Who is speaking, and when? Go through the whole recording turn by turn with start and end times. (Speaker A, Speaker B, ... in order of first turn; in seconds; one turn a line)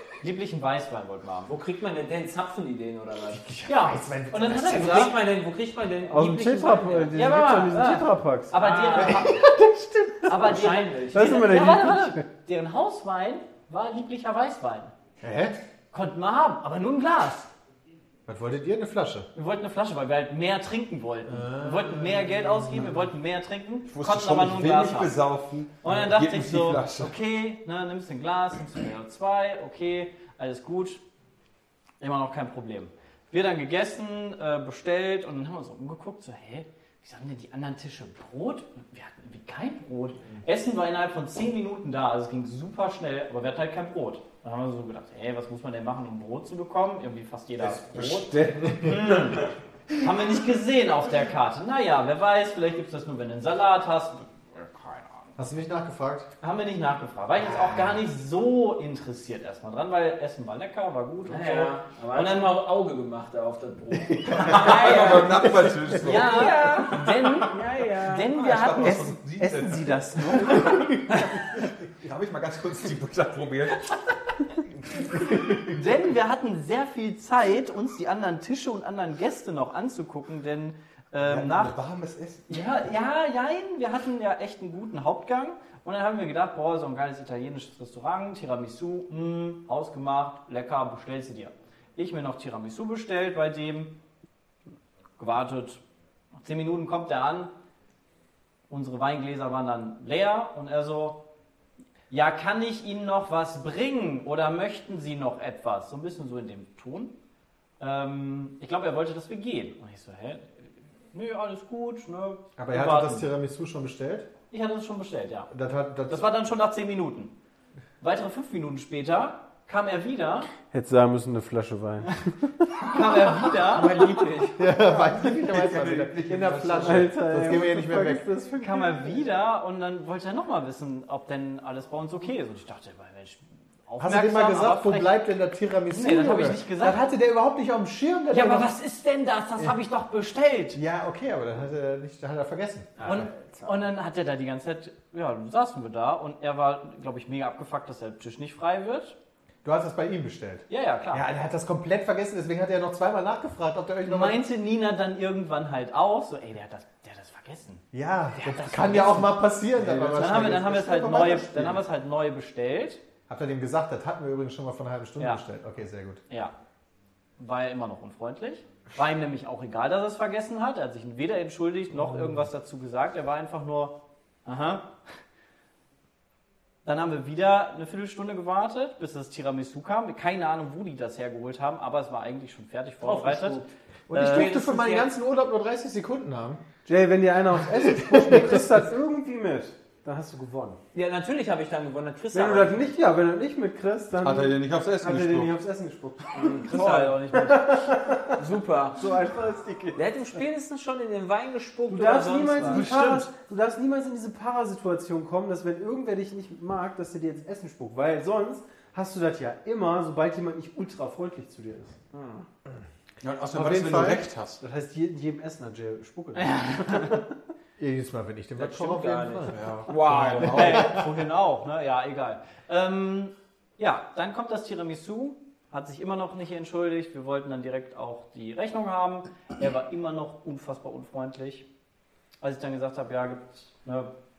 Speaker A: 0.2-1.5
Speaker B: 1.5-3.4
Speaker C: 3.3-5.1
Speaker A: 3.6-5.2
Speaker B: 4.6-8.0
Speaker D: 6.1-8.6
Speaker A: 7.1-9.4
Speaker B: 8.5-9.3
Speaker C: 8.9-10.5
Speaker A: 10.3-14.9
Speaker B: 10.3-11.3
Speaker D: 11.1-12.3
Speaker C: 15.2-15.6
Speaker A: 15.9-17.5
Speaker C: 18.2-19.3
Speaker A: 19.3-25.2
Speaker C: 21.2-23.1
Speaker E: 23.9-27.1
Speaker A: 25.8-31.0
Speaker A: 32.0-55.3
Speaker E: 47.6-49.5
Speaker C: 55.4-56.3
Speaker A: 56.4-62.6
Speaker B: 61.3-68.4
Speaker E: 64.2-66.7
Speaker A: 66.0-69.2
Speaker E: 68.3-73.9
Speaker D: 68.8-70.9
Speaker A: 70.3-70.7
Speaker A: 75.6-81.8
Speaker E: 81.2-82.5
Speaker A: 82.5-94.0
Speaker A: 95.2-95.8
Speaker A: 96.4-97.5
Speaker A: 98.7-101.2
Speaker A: 102.1-107.1
Speaker A: 107.8-110.5
Speaker A: 111.1-113.3
Speaker C: 112.6-114.3
Speaker A: 114.5-115.5
Speaker C: 115.5-116.3
Speaker A: 116.1-117.3
Speaker A: 118.0-120.5
Speaker D: 120.7-122.6
Speaker A: 122.8-124.3
Speaker E: 122.8-127.2
Speaker B: 123.8-124.5
Speaker C: 124.6-128.3
Speaker D: 126.8-129.2
Speaker A: 128.6-135.2
Speaker C: 134.0-138.7
Speaker A: 135.9-137.0
Speaker A: 138.3-140.8
Speaker C: 140.7-143.8
Speaker A: 143.0-149.2
Speaker C: 149.6-154.4
Speaker A: 150.7-151.2
Speaker A: 154.0-159.4
Speaker C: 157.9-161.8
Speaker E: 159.8-160.6
Speaker A: 160.1-163.0
Speaker C: 163.3-166.2
Speaker A: 166.3-166.5
Speaker A: 167.4-174.9
Speaker C: 172.0-172.4
Speaker A: 176.8-184.5
Speaker B: 183.0-185.1
Speaker C: 184.1-186.6
Speaker D: 186.8-190.8
Speaker C: 187.7-188.7
Speaker B: 190.9-192.9
Speaker D: 192.3-198.4
Speaker E: 194.2-195.5
Speaker A: 196.3-197.9
Speaker B: 198.3-199.1
Speaker D: 198.9-200.0
Speaker B: 199.9-202.9
Speaker D: 201.9-212.0
Speaker E: 202.7-203.2
Speaker B: 212.1-212.4
Speaker E: 213.2-214.6
Speaker D: 213.5-217.2
Speaker A: 216.3-217.2
Speaker C: 217.8-219.6
Speaker B: 218.6-220.9
Speaker E: 219.5-220.6
Speaker C: 220.3-221.1
Speaker A: 220.4-231.7
Speaker A: 232.4-234.1